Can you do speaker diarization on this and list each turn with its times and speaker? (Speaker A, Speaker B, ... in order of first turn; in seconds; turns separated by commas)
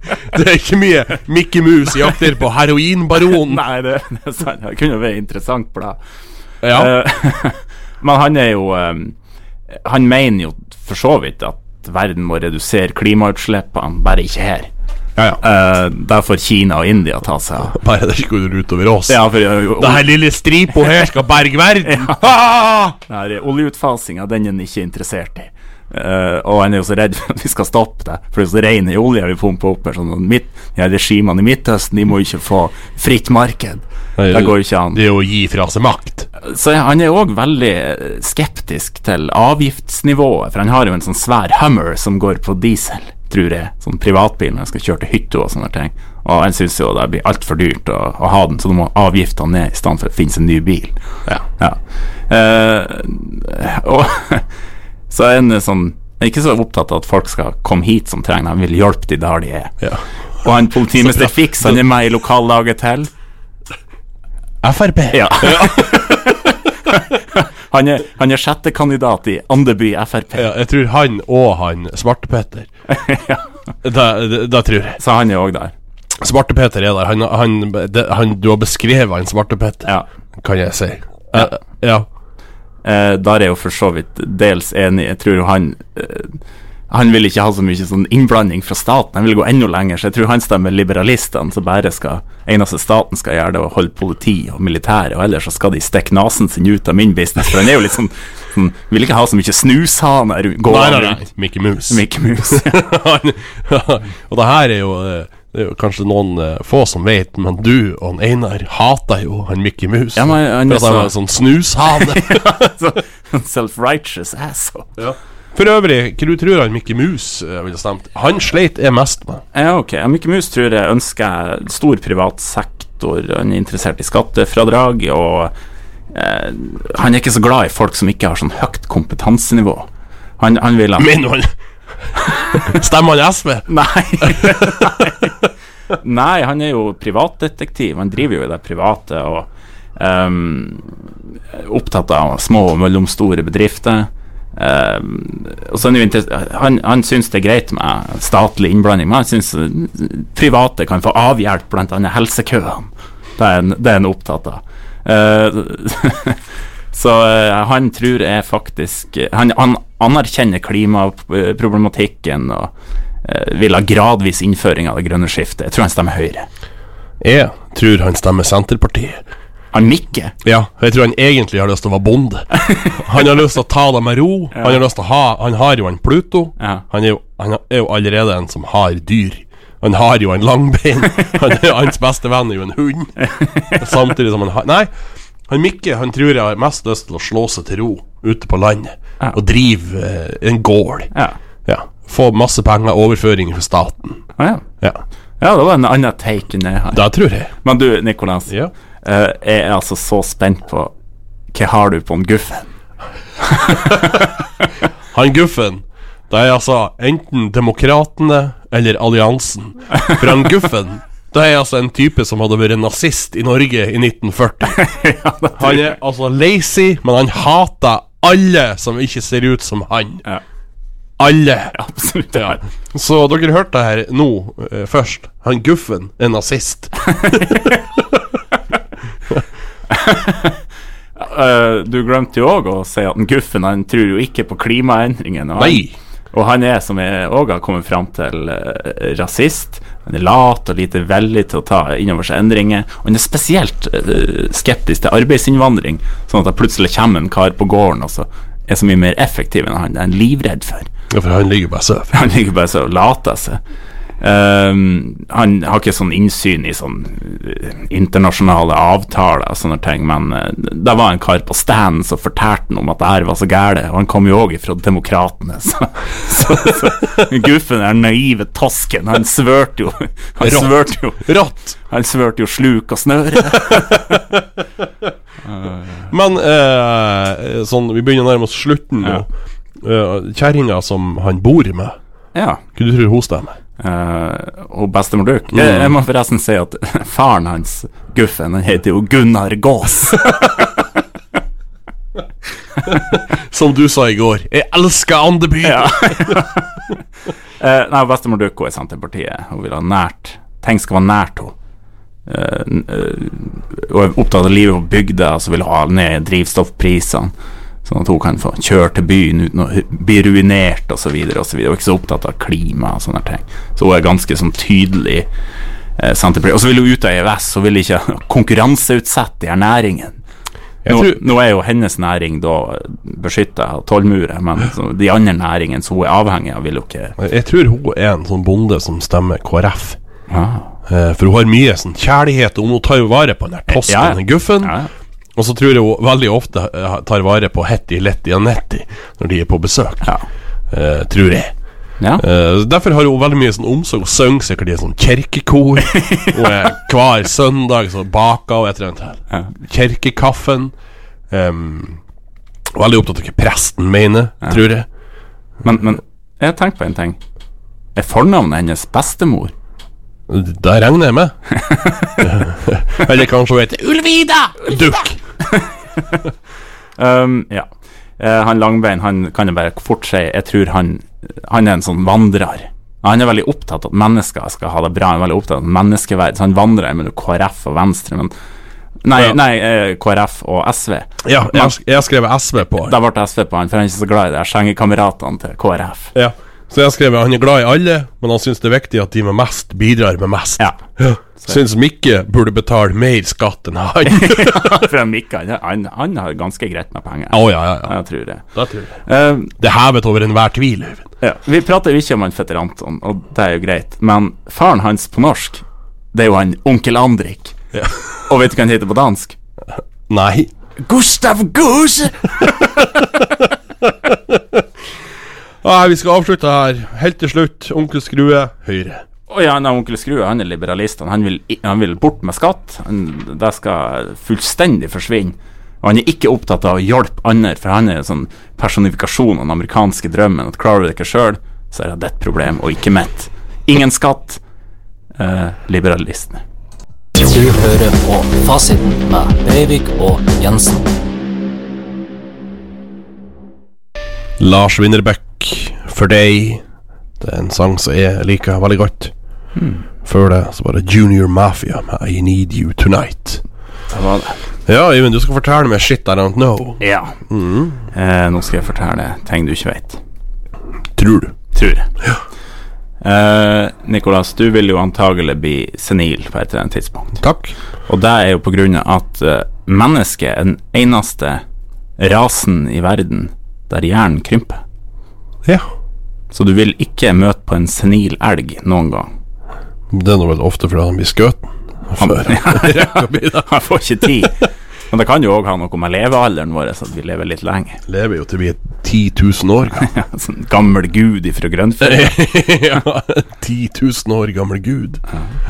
Speaker A: 0.2-3.6, Speaker B: 3.3-6.0, Speaker A: 6.6-6.9, Speaker B: 6.7-9.2, Speaker B: 9.8-14.7, Speaker B: 15.4-17.8, Speaker A: 17.6-23.0, Speaker B: 19.1-20.1, Speaker B: 21.9-22.2, Speaker B: 23.1-35.0, Speaker A: 34.2-36.3, Speaker B: 36.4-51.0, Speaker B: 51.6-54.5, Speaker B: 55.1-59.8, Speaker B: 60.4-63.1, Speaker A: 60.9-61.8, Speaker A: 64.6-66.3, Speaker B: 65.1-70.5, Speaker A: 70.4-72.7, Speaker B: 72.9-73.5, Speaker A: 73.8-75.0, Speaker B: 75.0-75.7, Speaker A: 76.2-82.1, Speaker B: 82.8-86.4, Speaker B: 86.9-101.3, Speaker A: 100.7-112.6, Speaker B: 101.9-102.8, Speaker B: 110.2-111.1, Speaker B: 111.9-115.0, Speaker A: 115.0-119.4, Speaker B: 119.5-125.5, Speaker B: 126.1-129.9, Speaker B: 130.4-131.1, Speaker A: 131.0-131.5, Speaker B: 132.2-132.8, Speaker A: 132.5-133.7, Speaker B: 133.7-135.4, Speaker A: 134.2-134.9, Speaker B: 135.9-156.4, Speaker B: 156.9-162.7, Speaker B: 163.2-166.5, Speaker A: 167.2-169.2, Speaker B: 169.7-170.3, Speaker A: 170.4-183.1, Speaker B: 172.6-173.1, Speaker B: 174.6-174.8, Speaker B: 183.2-184.0, Speaker A: 183.8-184.9, Speaker A: 185.5-191.1, Speaker A: 191.7-194.2, Speaker B: 194.4-194.7, Speaker B: 195.4-200.9, Speaker A: 196.9-197.5, Speaker B: 201.5-202.7, Speaker B: 203.4-204.4, Speaker A: 203.7-204.2, Speaker A: 205.1-214.8, Speaker B: 209.9-210.2, Speaker B: 214.7-215.9, Speaker A: 215.6-220.2, Speaker A: 221.2-221.8, Speaker B: 221.7-222.6, Speaker A: 222.3-228.0, Speaker B: 227.1-227.8, Speaker B: 229.9-230.6, Speaker B: 231.2-250.9, Speaker A: 235.6-235.9, Speaker A: 251.1-252.1, Speaker B: 252.1-253.6, Speaker B: 254.2-271.3, Speaker A: 270.4-271.8, Speaker B: 271.9-274.2, Speaker A: 273.5-274.5, Speaker B: 275.5-276.1, Speaker A: 276.1-279.3, Speaker A: 279.8-282.0, Speaker B: 282.3-282.6, Speaker A: 282.8-283.6, Speaker B: 283.8-290.9, Speaker A: 285.5-285.9, Speaker A: 292.9-296.4, Speaker B: 295.6-296.9, Speaker B: 297.6-301.6, Speaker B: 302.3-307.3, Speaker B: 307.9-315.3, Speaker B: 316.0-320.2, Speaker A: 320.9-321.2, Speaker B: 320.9-327.2, Speaker A: 327.2-330.0, Speaker B: 330.3-330.7, Speaker A: 330.9-334.8, Speaker B: 333.7-334.9, Speaker A: 335.4-340.1, Speaker A: 340.7-341.5, Speaker A: 342.2-350.7, Speaker B: 345.9-346.5, Speaker A: 351.3-352.0, Speaker A: 352.8-354.9, Speaker B: 355.6-357.2, Speaker B: 357.9-359.5, Speaker A: 360.3-361.4, Speaker B: 361.5-362.4, Speaker A: 362.2-365.2, Speaker B: 365.4-366.2, Speaker B: 367.0-367.7, Speaker B: 368.2-378.3, Speaker B: 379.0-381.8, Speaker A: 381.2-382.9, Speaker B: 382.8-386.1, Speaker A: 386.1-394.9, Speaker B: 394.1-398.4, Speaker A: 397.3-398.0, Speaker A: 398.6-398.9, Speaker B: 399.1-399.5, Speaker A: 399.6-401.1, Speaker B: 401.2-407.6, Speaker A: 407.7-408.0, Speaker B: 408.3-409.4, Speaker A: 410.1-410.5, Speaker B: 410.8-412.7, Speaker A: 412.8-414.6, Speaker A: 415.6-419.0, Speaker B: 419.3-434.4, Speaker B: 435.2-436.4, Speaker C: 437.2-440.9, Speaker A: 444.4-446.6, Speaker A: 447.2-449.1, Speaker B: 449.6-449.9, Speaker A: 450.0-453.4, Speaker B: 453.9-454.4, Speaker A: 454.7-457.8, Speaker B: 456.8-457.2, Speaker B: 457.9-460.0, Speaker A: 461.0-461.4, Speaker B: 461.5-461.9, Speaker B: 463.0-467.2, Speaker A: 467.2-467.5, Speaker B: 467.9-471.4, Speaker B: 472.0-474.6, Speaker B: 476.3-479.1, Speaker A: 479.9-483.5, Speaker B: 482.0-487.8, Speaker A: 487.9-489.9, Speaker B: 489.8-492.2, Speaker A: 491.8-495.0